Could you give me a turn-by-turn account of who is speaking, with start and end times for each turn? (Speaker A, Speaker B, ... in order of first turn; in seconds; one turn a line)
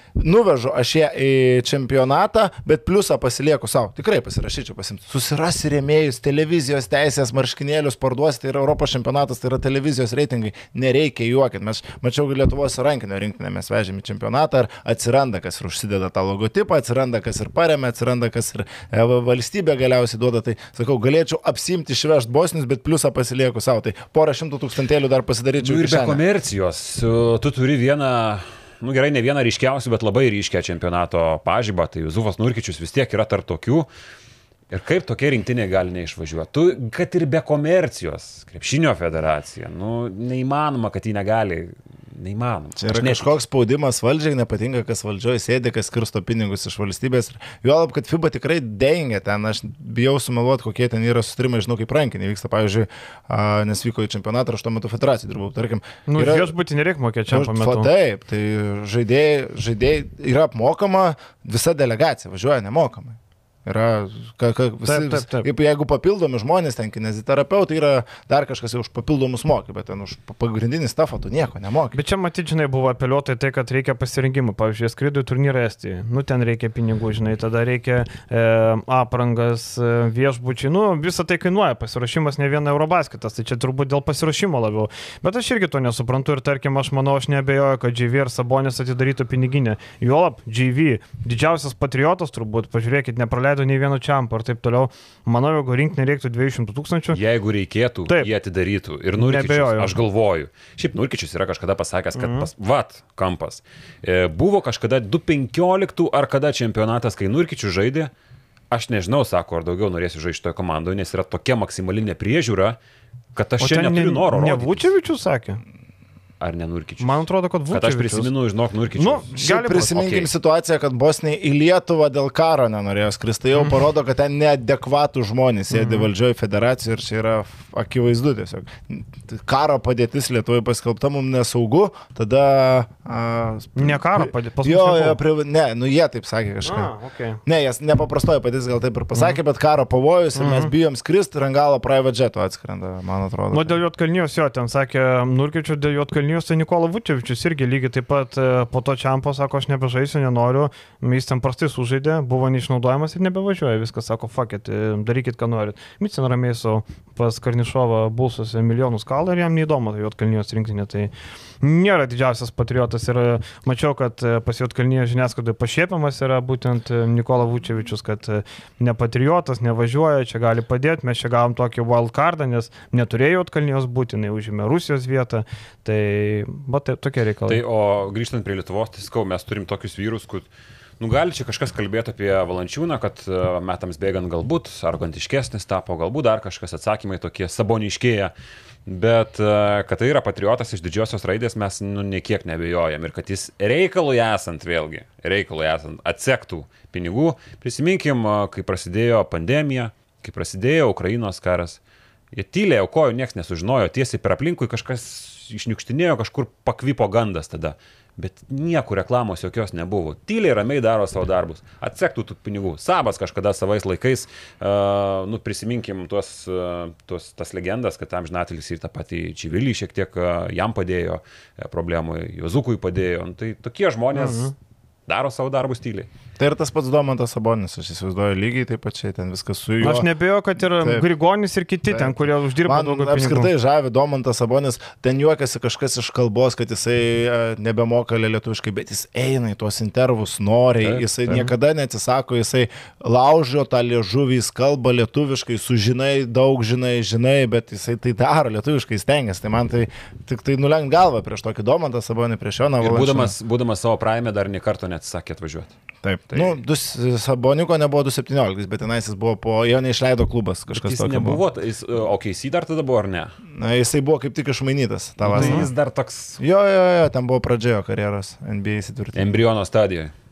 Speaker A: 0.2-26.2
Speaker B: 25.6-33.9
Speaker B: 34.7-43.4
Speaker A: 42.8-56.5
Speaker C: 56.1-57.9
Speaker A: 57.3-72.0
Speaker C: 64.8-65.5
Speaker C: 71.9-97.2
Speaker B: 97.1-108.1
Speaker C: 99.2-99.9
Speaker C: 102.2-102.5
Speaker B: 108.7-112.8
Speaker B: 113.3-114.9
Speaker C: 113.6-115.6
Speaker B: 116.4-120.3
Speaker C: 117.0-118.3
Speaker C: 119.0-119.9
Speaker A: 119.3-136.9
Speaker C: 125.7-126.1
Speaker C: 133.8-135.2
Speaker C: 136.7-137.4
Speaker A: 137.4-143.8
Speaker C: 140.4-140.7
Speaker C: 143.5-177.6
Speaker B: 177.5-180.5
Speaker B: 181.0-188.3
Speaker B: 188.9-201.8
Speaker B: 202.3-224.5
Speaker C: 224.1-224.5
Speaker B: 225.1-226.1
Speaker A: 226.4-231.1
Speaker C: 229.8-233.5
Speaker A: 231.9-253.3
Speaker C: 241.3-241.5
Speaker B: 252.8-255.7
Speaker A: 256.0-261.4
Speaker B: 260.7-263.4
Speaker A: 263.5-265.7
Speaker B: 265.2-266.4
Speaker C: 265.4-265.7
Speaker A: 266.4-269.4
Speaker B: 269.1-270.1